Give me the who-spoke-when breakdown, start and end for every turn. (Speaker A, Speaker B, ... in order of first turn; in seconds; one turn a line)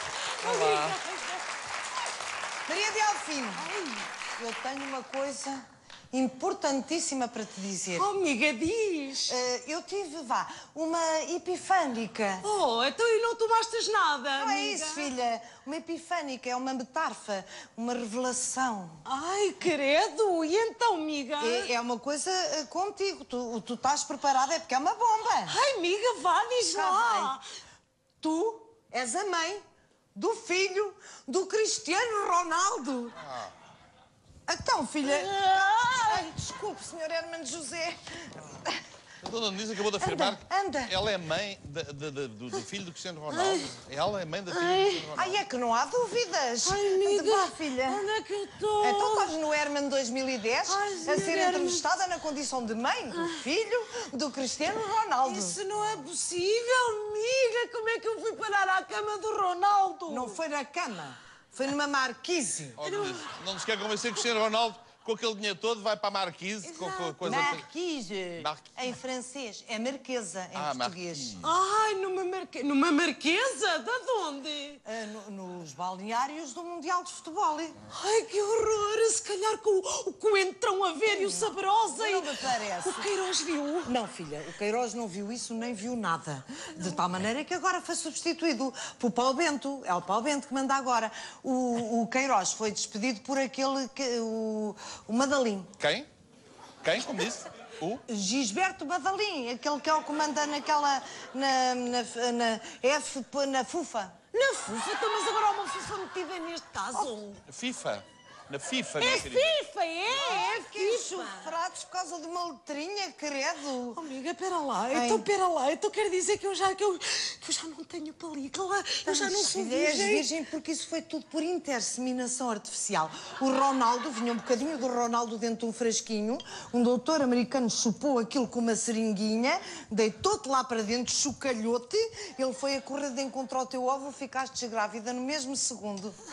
Speaker A: 0.4-1.0
Speaker B: 0.4-1.4
Speaker C: 2.6-3.6
Speaker B: 3.6-4.2
Speaker C: 4.4-8.1
Speaker B: 7.9-9.3
Speaker C: 9.3-12.5
Speaker B: 12.4-15.1
Speaker C: 14.4-19.0
Speaker B: 19.1-21.7
Speaker C: 21.4-25.6
Speaker B: 25.4-27.4
Speaker C: 26.7-27.4
Speaker C: 28.2-29.6
Speaker C: 30.1-33.2
Speaker A: 33.2-33.5
Speaker C: 34.5-35.4
Speaker B: 35.0-36.3
Speaker C: 36.0-38.7
Speaker A: 39.2-45.4
Speaker C: 39.9-40.9
Speaker B: 43.3-43.7
Speaker B: 44.5-45.1
Speaker C: 45.1-48.0
Speaker B: 46.6-49.4
Speaker C: 48.8-55.6
Speaker B: 50.6-51.8
Speaker B: 53.1-53.4
Speaker B: 55.2-60.4
Speaker C: 60.1-62.8
Speaker A: 62.8-67.7
Speaker B: 62.8-63.3
Speaker B: 66.6-67.2
Speaker C: 67.2-71.4
Speaker A: 68.4-68.8
Speaker A: 70.5-71.5
Speaker B: 71.4-74.8
Speaker C: 74.8-77.8
Speaker B: 77.9-83.9
Speaker C: 81.0-83.1
Speaker C: 83.8-95.7
Speaker A: 95.8-96.1
Speaker A: 96.8-98.0
Speaker C: 98.1-104.2
Speaker B: 104.3-107.4
Speaker A: 107.5-109.5
Speaker B: 109.0-111.5
Speaker C: 110.1-114.0
Speaker B: 113.9-120.3
Speaker C: 114.9-115.2
Speaker C: 119.0-136.1